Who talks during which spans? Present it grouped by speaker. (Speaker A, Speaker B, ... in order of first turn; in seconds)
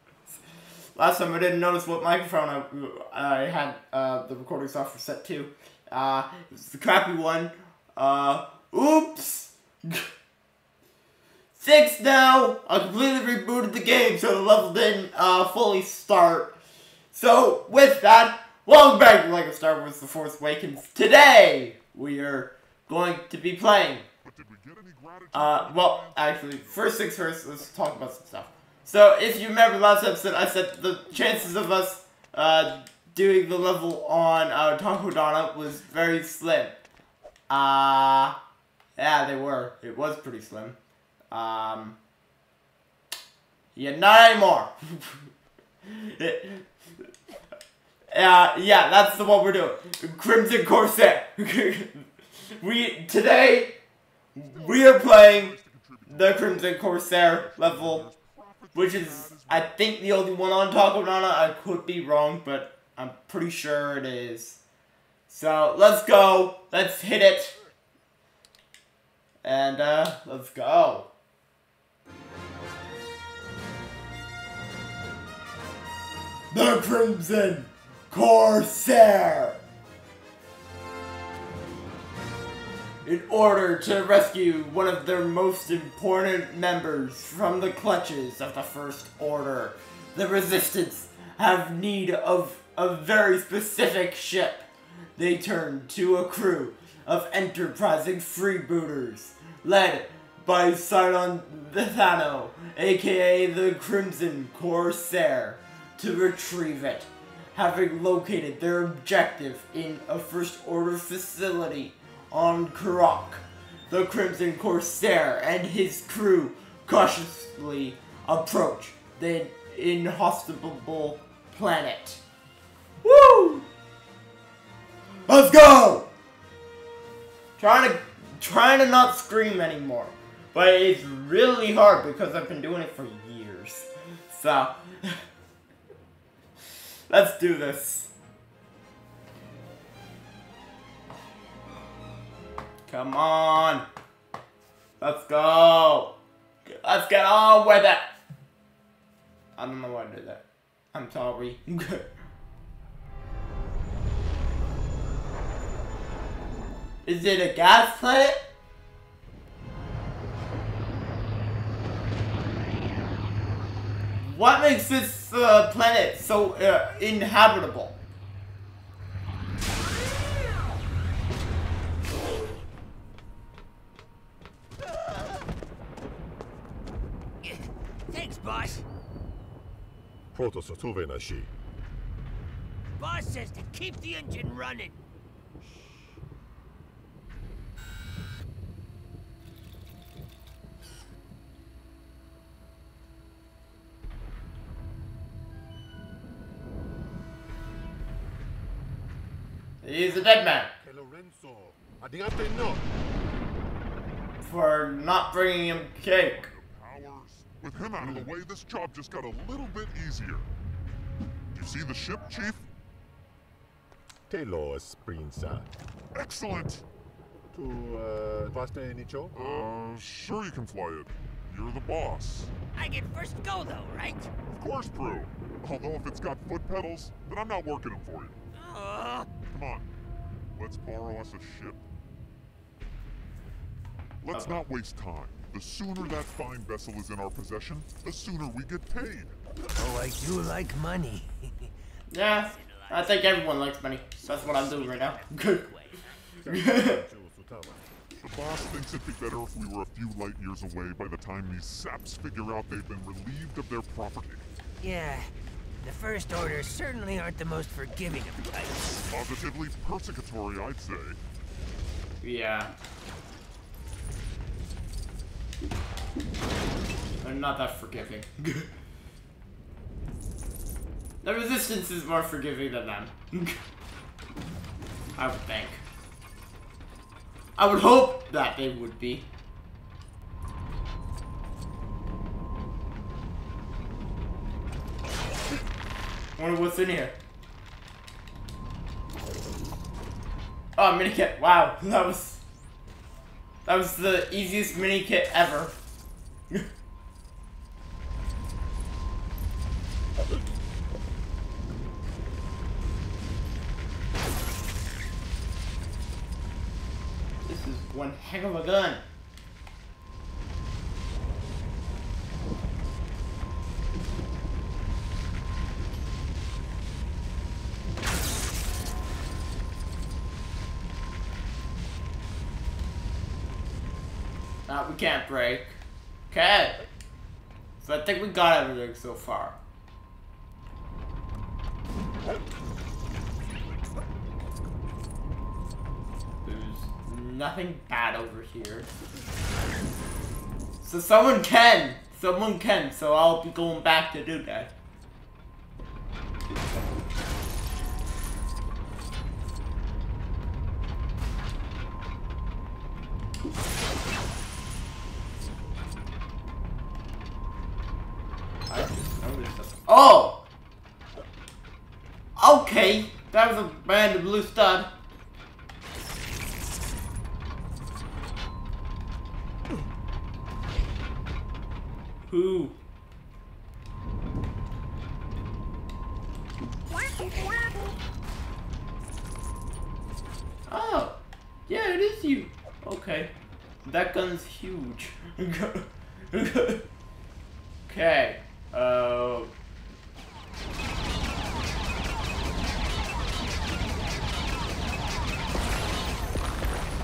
Speaker A: 0.9-10.1, 11.5-16.5, 17.1-24.1, 25.3-36.8, 37.5-38.4, 39.0-40.8, 41.3-42.0, 43.7-45.3, 45.9-46.7, 48.1-53.8, 54.4-55.5, 56.1-58.0, 58.7-64.6, 65.3-67.5, 69.4-71.1, 76.5-79.6, 83.0-122.2, 123.0-123.7, 125.3-126.1, 127.6-135.2, 137.1-138.1, 142.9-143.8, 145.0-146.1, 146.6-148.1, 149.6-152.1, 157.0-158.4, 164.1-167.9, 199.8-200.7, 204.4-206.5, 234.3-234.6, 242.1-245.7, 246.5-247.0, 262.2-262.7, 267.2-268.7, 271.2-273.6, 275.2-275.8, 277.6-279.3, 286.4-287.1, 290.8-292.4, 293.6-295.7, 307.4-309.0, 324.7-325.8, 326.3-326.8, 327.8-329.6, 336.4-338.9, 340.8-344.7, 358.7-360.4, 362.4-364.9, 372.3-372.8, 380.7-383.3, 383.8-386.9, 387.9-389.5
Speaker B: 24.2-27.0, 54.4-59.8, 206.1-210.4, 211.5-212.6, 216.1-216.8, 219.3-222.5, 224.5-228.4, 229.4-229.9, 230.5-231.8, 234.2-239.3, 248.2-254.4, 259.1-261.2
Speaker C: 177.4-178.8, 183.0-185.0, 222.7-224.3, 228.5-229.3, 239.7-241.7, 242.3-243.4, 244.2-246.0, 254.8-255.3, 255.8-259.0
Speaker D: 180.3-181.5, 200.2-202.8, 208.0-208.3, 214.3-215.7, 217.5-219.7, 246.4-247.8